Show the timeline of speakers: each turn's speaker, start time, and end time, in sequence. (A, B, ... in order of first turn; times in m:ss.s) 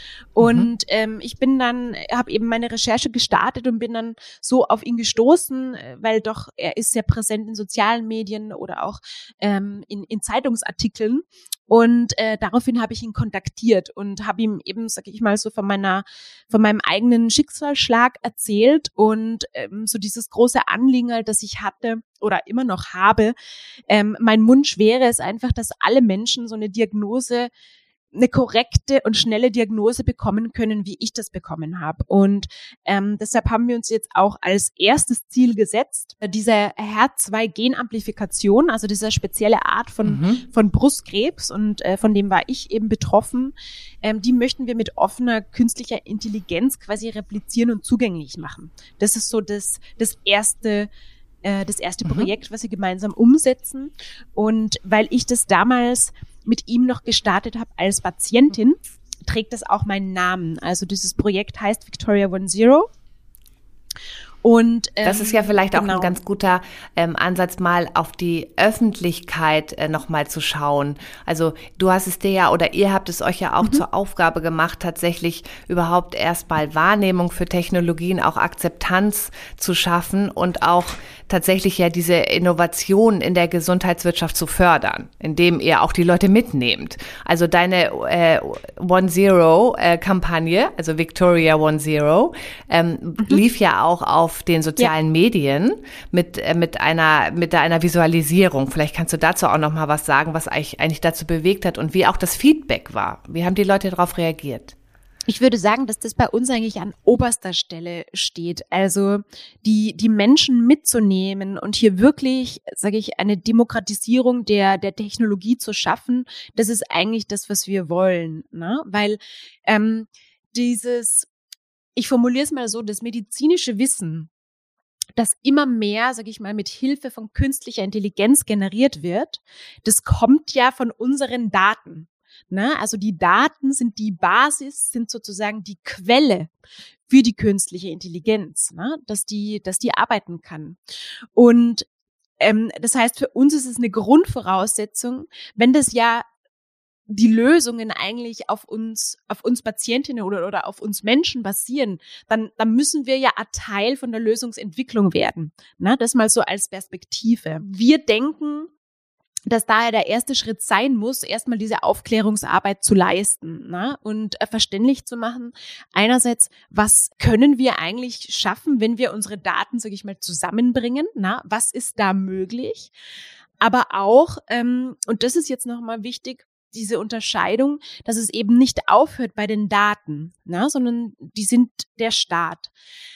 0:00.4-0:23.3 A
0:00.4-0:00.7 B
0:23.9-0:27.5 A
0:28.1-0:50.9 A
0:40.0-0:40.4 B
0:51.4-1:02.9 A
0:52.0-0:52.3 B
1:04.4-1:06.1 A
1:05.0-1:44.8 B
1:45.3-2:01.3 A
2:02.0-2:04.3 A
2:05.2-2:16.5 A
2:17.1-2:20.8 A
2:21.3-2:21.8 A
2:22.4-2:26.2 A
2:27.1-2:38.7 A
2:39.5-2:52.9 A
2:53.6-3:02.7 A